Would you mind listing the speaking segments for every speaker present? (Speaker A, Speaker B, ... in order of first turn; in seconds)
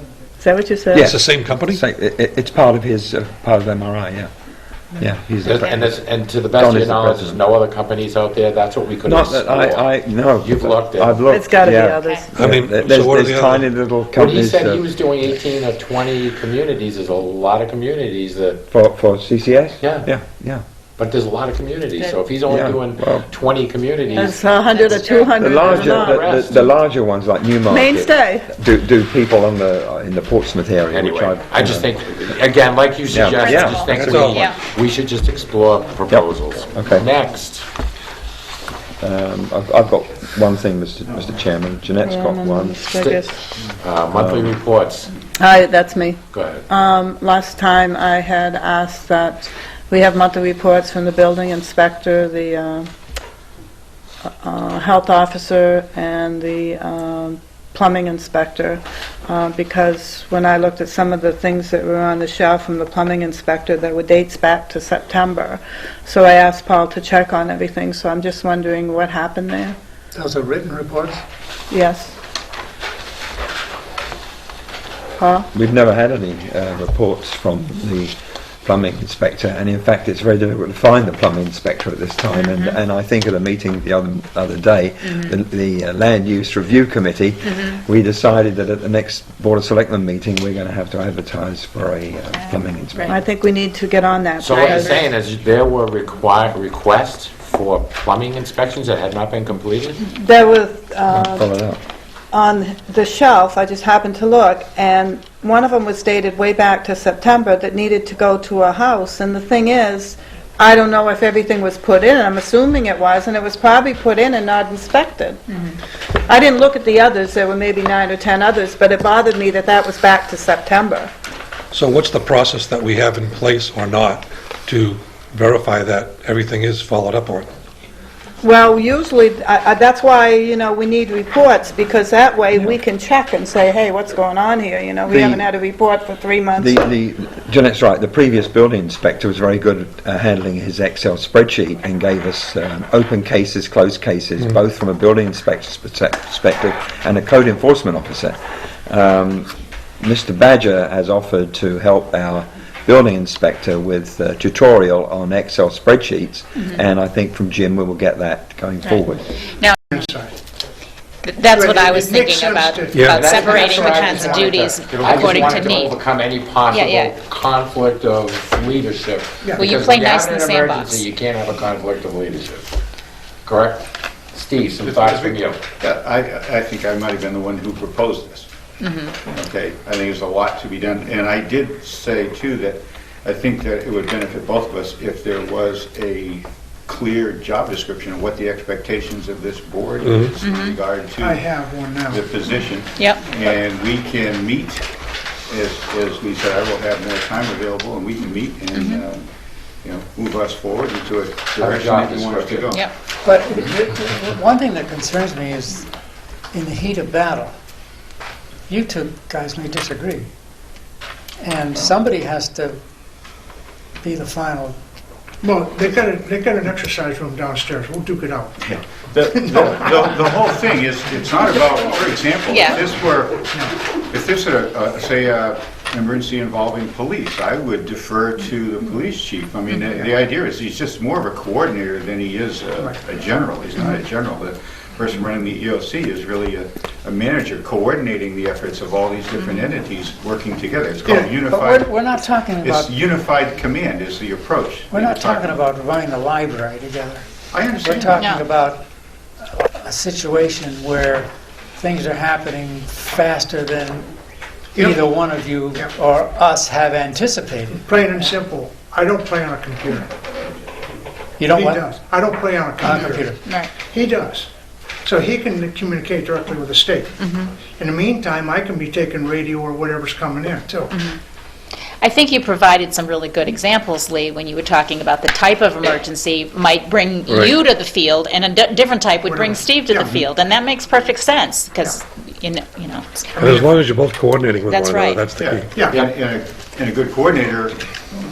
Speaker A: 0.4-1.1, 11.3-12.3, 24.1-26.3, 27.7-28.5, 42.0-43.4, 45.4-52.9, 54.4-69.7, 71.7-72.1, 75.2-75.5, 93.1-95.0, 100.0-101.5, 102.3-115.4, 116.2-121.1, 128.4-136.8
Speaker B: 0.9-4.3, 4.9-6.0, 6.5-7.4, 9.0-15.0, 18.7-20.6, 22.4-23.3, 25.4-31.9, 33.1-34.3, 36.1-37.1, 39.0-42.8, 44.1-44.5, 75.5-93.2, 101.1-101.8, 135.1-135.4, 136.6-159.4
Speaker C: 1.0-1.8, 12.3-13.7, 33.9-34.4, 121.7-127.5, 162.9-163.2, 190.0-190.3, 277.3-277.6, 283.4-285.7
Speaker D: 5.4-11.2, 14.1-18.6, 19.8-20.1, 21.0-26.6, 30.9-37.7, 42.9-45.1, 46.3-46.6, 94.4-100.0, 163.1-172.7, 173.4-175.6, 201.6-202.7
Speaker E: 24.7-25.9, 33.4-34.6, 82.3-82.8, 94.5-94.9, 161.2-166.0, 166.7-167.1, 169.5-171.0, 178.8-179.1, 190.4-190.8, 192.9-193.2, 198.7-199.0, 222.5-222.8, 248.1-248.4, 263.4-263.7, 267.2-267.5, 270.9-271.2, 272.0-283.3, 284.7-285.2
Speaker F: 70.1-71.2, 203.2-205.9, 206.5-207.5, 208.7-210.3, 211.4-212.8, 214.0-214.8, 241.3-242.9, 244.9-247.3, 247.8-248.8, 249.4-254.1, 254.7-258.4, 261.4-262.0, 262.8-263.5
Speaker G: 159.9-160.3, 161.5-164.7, 169.4-169.7, 191.2-192.5, 215.4-218.6, 219.3-220.2, 254.7-255.0, 257.8-260.1, 261.5-264.5, 265.0-267.1, 267.7-270.9, 279.2-280.3, 283.4-283.8, 285.7-286.1
Speaker H: 165.1-165.4, 174.8-178.5, 179.2-194.9, 195.5-199.3, 199.8-202.9, 218.6-241.9, 242.6-245.6, 247.5-248.4, 285.4-287.8